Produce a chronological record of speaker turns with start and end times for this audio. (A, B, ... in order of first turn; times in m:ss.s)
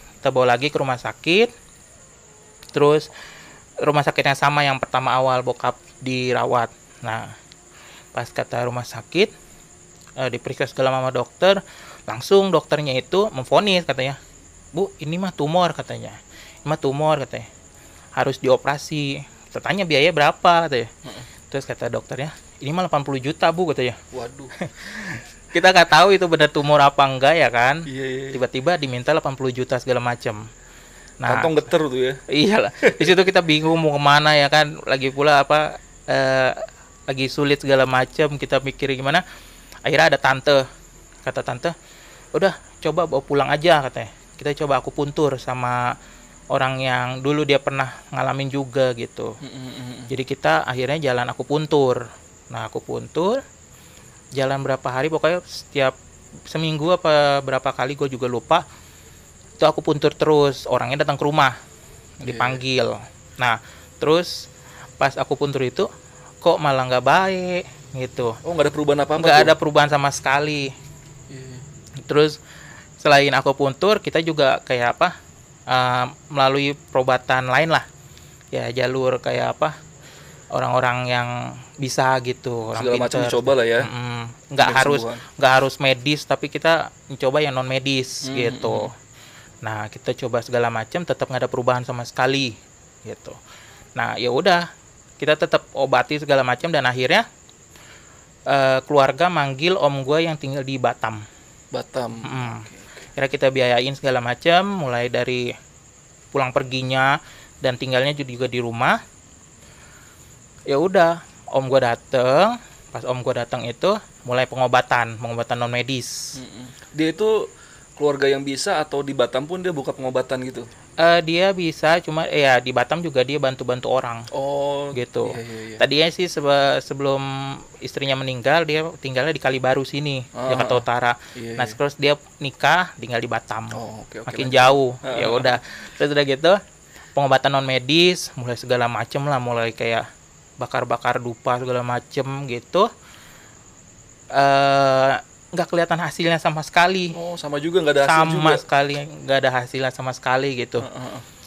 0:00.2-0:01.5 A
0:02.7-0:03.1 A
0:03.8-0:07.3 A
0:08.1-0:09.3 A
0:10.2-0:14.2 A
0:14.7-0:17.5 A
0:18.2-0:20.9 A
0:21.5-0:24.0 A
0:24.1-0:24.5 B
0:24.6-0:30.4 A
0:27.9-0:28.4 B
0:31.2-0:31.5 A
0:31.3-0:32.2 B
0:32.3-0:39.2 A
0:32.8-0:33.2 B
0:39.8-0:40.6 A
0:41.2-0:41.7 A
0:42.3-0:45.9 A
0:46.5-0:49.4 A
0:49.4-0:50.1 B
0:50.1-0:53.4 A
0:54.4-0:55.9 A
0:56.5-0:58.6 A
0:59.6-1:01.6 A
1:02.2-1:04.5 A
1:02.2-1:02.6 B
1:05.0-1:05.9 A
1:06.4-1:08.4 A
1:08.4-1:09.5 B
1:09.2-1:10.7 A
1:11.3-1:11.6 B
1:12.0-1:12.4 A
1:13.0-1:15.1 A
1:15.7-1:17.8 A
1:18.5-1:19.7 A
1:20.5-1:28.9 A
1:22.8-1:23.9 B
1:24.6-1:25.2 B
1:28.2-1:28.9 B
1:29.6-1:33.4 A
1:34.0-1:34.7 A
1:35.2-1:37.2 A
1:38.5-1:41.2 A
1:41.7-1:43.0 B
1:42.2-1:45.5 A
1:46.3-1:49.0 A
1:50.7-1:56.3 A
1:56.4-1:57.4 B
1:58.0-2:00.6 B
2:01.0-2:04.3 A
2:04.3-2:05.8 B
2:04.9-2:16.6 A
2:10.3-2:11.8 B
2:13.7-2:15.6 B
2:17.1-2:20.0 A
2:20.6-2:22.9 A
2:24.3-2:27.2 A
2:27.1-2:28.6 B
2:28.0-2:30.8 A
2:30.8-2:31.2 B